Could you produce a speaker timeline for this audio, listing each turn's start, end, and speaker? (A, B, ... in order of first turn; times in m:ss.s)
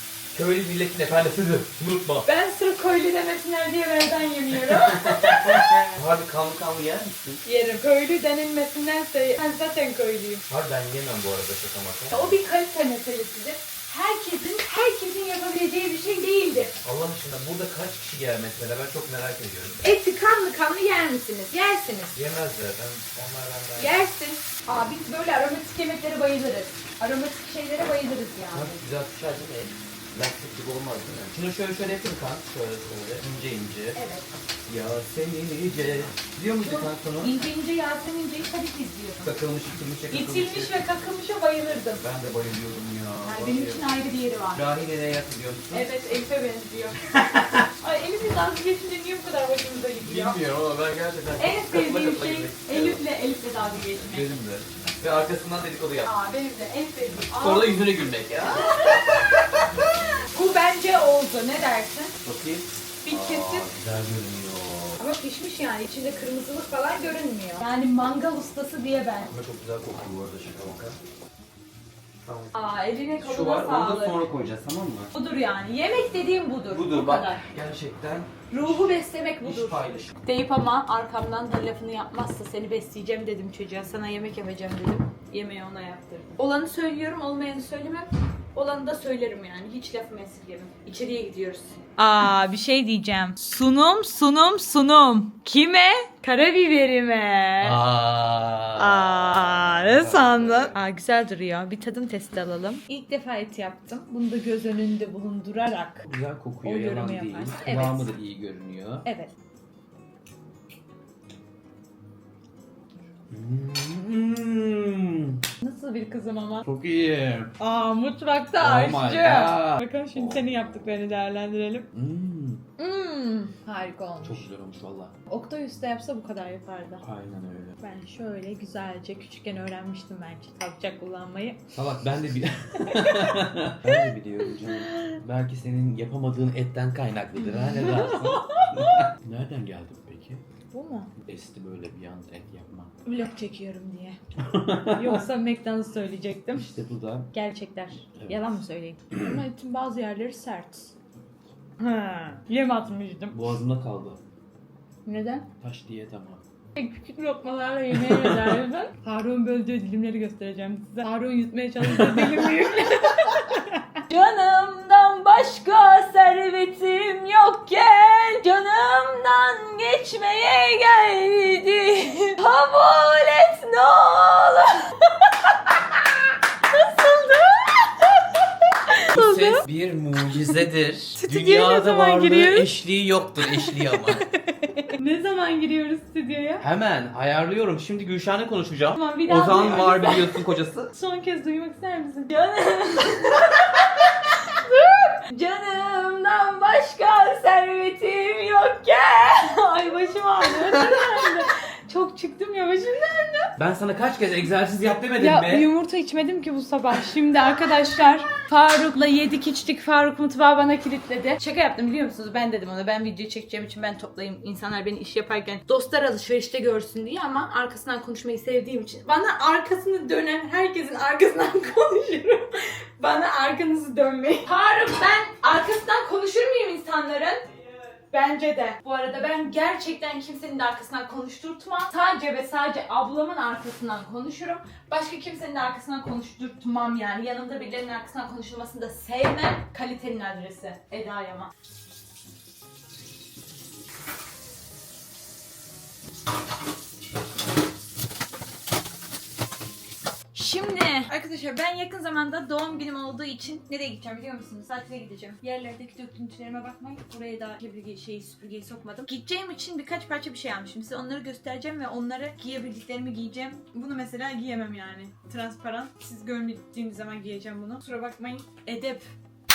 0:00.3-0:02.2 A
0:02.3-0:05.8 B
0:04.7-0:07.4 A
0:07.4-0:10.4 B
0:10.5-0:12.4 A
0:12.1-0:16.7 B
0:16.8-0:19.8 A
0:19.8-0:22.2 B
0:22.1-0:24.0 A
0:23.8-0:28.7 B
0:28.5-0:34.0 A
0:33.9-0:34.3 B
0:34.7-0:37.4 A
0:36.6-0:39.3 B
0:39.2-0:40.8 A
0:40.1-0:42.0 B
0:42.0-0:43.9 A
0:43.2-0:44.7 B
0:44.5-0:45.9 A
0:45.7-0:47.0 B
0:47.1-0:47.6 A
0:47.8-0:50.4 B
0:50.0-0:53.0 A
0:51.4-0:54.4 B
0:54.1-0:56.1 A
0:56.0-0:57.9 B
0:57.4-0:59.7 A
1:00.3-1:02.2 B
1:02.2-1:05.0 A
1:03.0-1:03.7 B
1:05.0-1:09.3 B
1:09.3-1:11.0 A
1:12.2-1:12.6 A
1:12.5-1:14.2 B
1:13.2-1:15.1 A
1:15.1-1:17.4 B
1:16.7-1:20.1 A
1:18.5-1:37.8 B
1:37.6-1:40.8 A
1:38.8-1:46.1 B
1:46.0-1:49.1 A
1:46.6-1:48.1 B
1:49.0-1:49.3 B
1:53.3-1:55.4 A
1:55.6-1:56.6 B
1:56.6-1:57.5 A
1:57.6-2:01.9 B
1:58.6-2:00.4 A
2:01.9-2:02.6 A
2:02.8-2:04.5 B
2:04.2-2:05.1 A
2:05.3-2:07.0 B
2:07.0-2:07.8 A
2:07.8-2:11.6 B
2:11.7-2:20.4 A
2:12.9-2:13.4 B
2:14.9-2:15.2 B
2:17.6-2:19.0 B
2:20.7-2:21.1 B
2:21.2-2:22.9 A
2:23.0-2:24.2 B
2:24.4-2:25.2 A
2:24.8-2:26.7 B
2:26.5-2:27.3 A
2:27.3-2:30.9 B
2:28.2-2:28.5 A
2:31.8-2:33.4 B
2:33.3-2:34.2 A
2:35.0-2:35.5 B
2:35.6-2:36.4 A
2:36.8-2:56.1 B
2:37.9-2:38.6 A
2:41.8-2:42.5 A
2:56.7-2:58.0 B
2:58.9-2:59.6 B
2:59.1-3:04.2 A
3:01.2-3:02.7 B
3:03.5-3:06.6 B
3:06.6-3:10.9 A
3:09.0-3:23.5 B
3:23.6-3:25.7 A
3:25.2-4:01.5 B
4:10.3-4:29.1 B